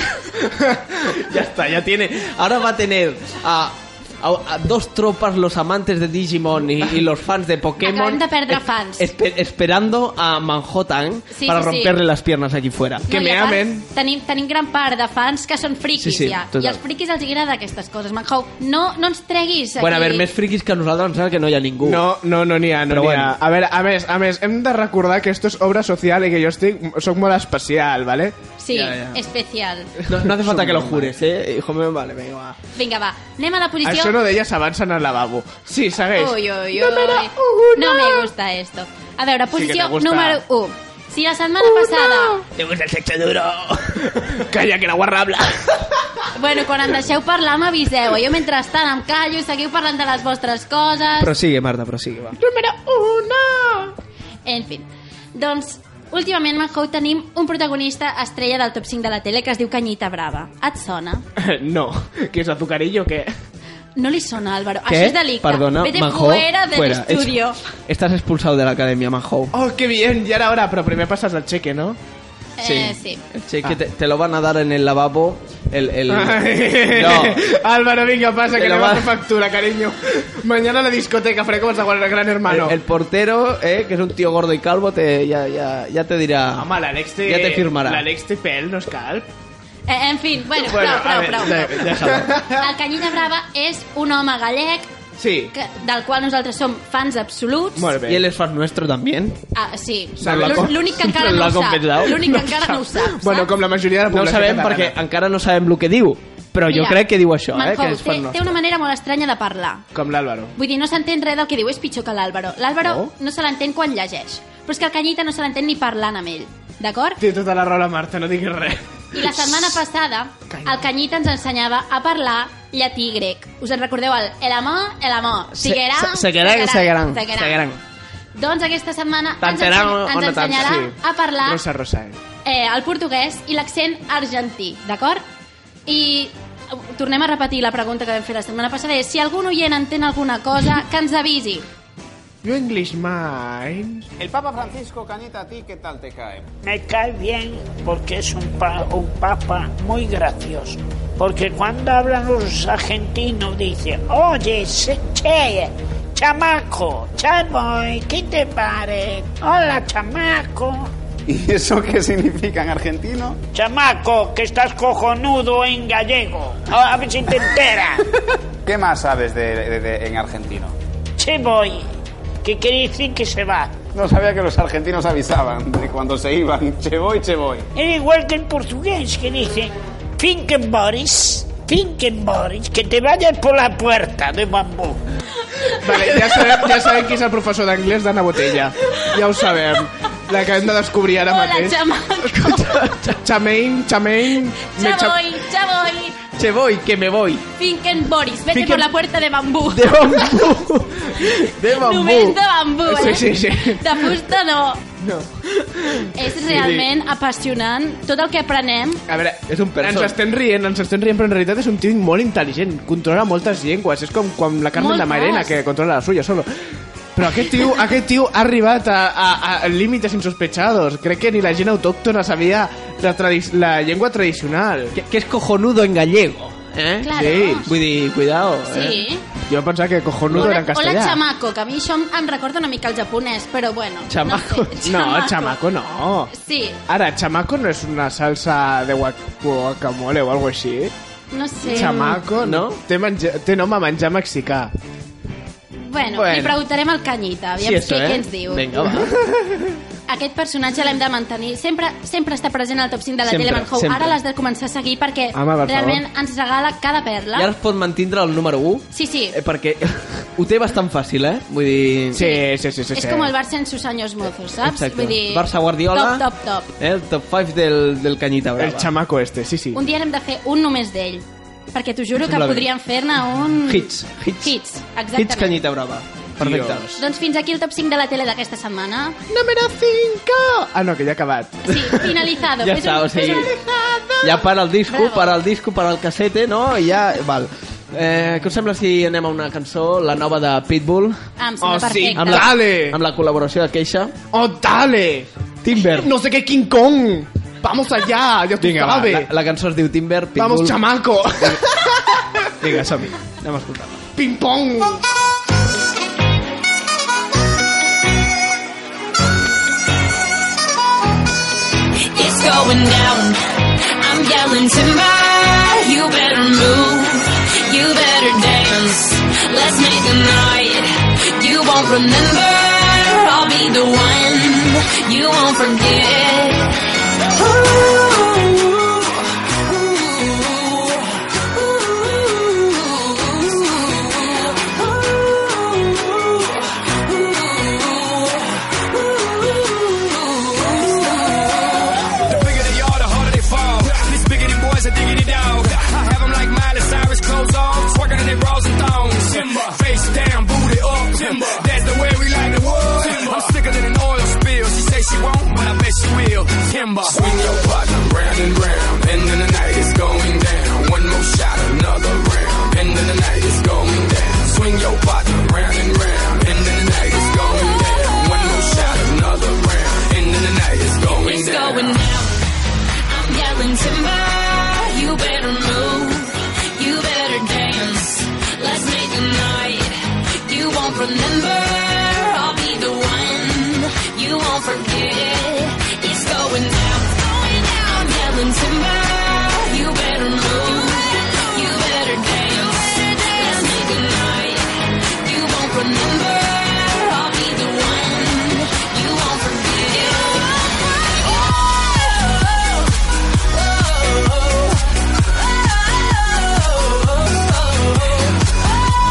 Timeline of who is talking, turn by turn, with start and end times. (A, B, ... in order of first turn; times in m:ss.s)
0:00.5-0:00.8 A
0:01.1-0:13.1 B
0:07.8-0:09.1 C
0:11.3-0:11.9 C
0:13.1-0:13.8 A
0:13.1-0:20.3 C
0:16.0-0:16.8 B
0:19.8-0:22.1 B
0:21.8-0:28.4 A
0:22.9-0:23.4 B
0:28.6-0:29.9 C
0:28.7-0:29.2 B
0:30.1-0:32.6 B
0:30.1-0:31.1 A
0:32.7-0:34.2 C
0:33.8-0:38.3 A
0:36.2-0:42.4 C
0:39.5-0:40.4 A
0:41.7-0:42.2 A
0:42.5-0:44.3 B
0:44.2-0:46.0 A
0:46.3-0:51.3 C
0:51.2-0:52.4 B
0:52.4-0:53.9 A
0:54.4-1:01.2 C
1:01.4-1:03.3 A
1:04.0-1:07.6 C
1:04.9-1:09.5 B
1:09.5-1:12.0 A
1:12.6-1:13.2 C
1:12.6-1:17.5 B
1:16.1-1:22.8 A
1:18.5-1:19.2 B
1:22.4-1:28.0 B
1:26.6-1:29.3 A
1:29.9-1:31.9 C
1:30.6-1:32.5 B
1:30.8-1:31.3 A
1:32.0-1:32.6 A
1:32.5-1:34.9 C
1:35.2-1:35.5 A
1:35.5-1:37.9 C
1:37.8-1:38.2 A
1:38.0-1:39.4 B
1:39.5-1:43.5 C
1:40.2-1:40.8 A
1:40.2-1:42.4 B
1:42.2-1:44.9 A
1:44.1-1:48.5 B
1:46.7-1:49.8 C
1:49.9-1:50.5 A
1:50.6-1:57.2 C
1:52.8-1:53.1 A
1:57.2-1:59.8 A
1:59.1-2:07.6 C
2:00.5-2:00.8 A
2:05.5-2:07.8 B
2:08.3-2:11.6 C
2:09.4-2:10.9 B
2:10.5-2:12.2 A
2:12.4-2:15.2 C
2:15.9-2:21.6 C
2:22.4-2:24.1 A
2:24.2-2:26.5 D
2:26.6-2:40.9 E
2:41.3-2:43.4 D
2:43.5-2:48.0 E
2:48.6-2:50.7 D
2:51.2-2:51.9 E
2:52.4-2:53.8 E
2:53.8-2:57.6 D
2:57.7-3:05.0 E
3:05.8-3:11.8 A
3:11.2-3:12.8 C
3:12.5-3:13.2 B
3:13.1-3:15.2 A
3:14.6-3:16.2 C
3:16.4-3:17.4 B
3:17.6-3:20.5 C
3:18.5-3:18.9 B
3:19.7-3:22.4 B
3:21.7-3:24.8 C
3:22.8-3:24.1 A
3:25.0-3:26.9 B
3:26.1-3:29.0 C
3:29.1-3:36.5 A
3:29.5-3:30.2 B
3:34.7-3:35.6 C
3:37.1-3:45.0 A
3:44.9-3:49.0 B
3:47.0-3:47.7 C
3:47.1-3:47.6 A
3:48.7-3:49.2 C
3:49.4-3:51.2 A
3:50.3-3:55.6 C
3:54.1-3:54.8 B
3:54.8-3:56.3 A
3:56.3-3:56.8 C
3:56.9-4:00.9 A
4:01.3-4:02.2 C
4:01.6-4:04.7 A
4:01.7-4:02.8 B
4:05.8-4:09.0 C
4:06.1-4:06.6 B
4:07.6-4:09.3 B
4:10.1-4:17.5 C
4:13.2-4:14.2 B
4:15.3-4:16.0 A
4:17.3-4:22.3 B
4:18.9-4:19.4 C
4:22.1-4:23.3 A
4:22.1-4:26.7 C
4:24.6-4:26.2 B
4:26.8-4:28.9 B
4:28.6-4:29.8 A
4:29.7-4:35.6 C
4:32.2-4:32.7 B
4:33.6-4:34.5 B
4:35.1-4:37.0 B
4:36.4-4:36.9 A
4:37.0-4:39.2 C
4:39.3-4:42.1 A
4:41.7-4:43.5 C
4:42.6-4:43.5 B
4:43.2-4:44.5 A
4:44.2-4:51.2 B
4:44.9-4:45.4 C
4:51.4-4:52.5 C
4:51.6-4:53.0 A
4:52.1-4:54.2 B
4:54.3-4:55.3 A
4:55.6-4:56.1 B
4:55.8-4:59.3 A
4:58.6-5:00.8 B
5:00.4-5:02.6 A
5:01.4-5:01.6 B
5:02.6-5:04.0 B
5:04.2-5:05.0 A
5:12.1-5:26.8 F
5:27.8-5:28.4 F
5:29.9-5:31.0 F
5:32.5-5:33.6 F
5:42.2-6:12.0 G
6:11.2-6:12.4 F
6:13.1-6:40.6 F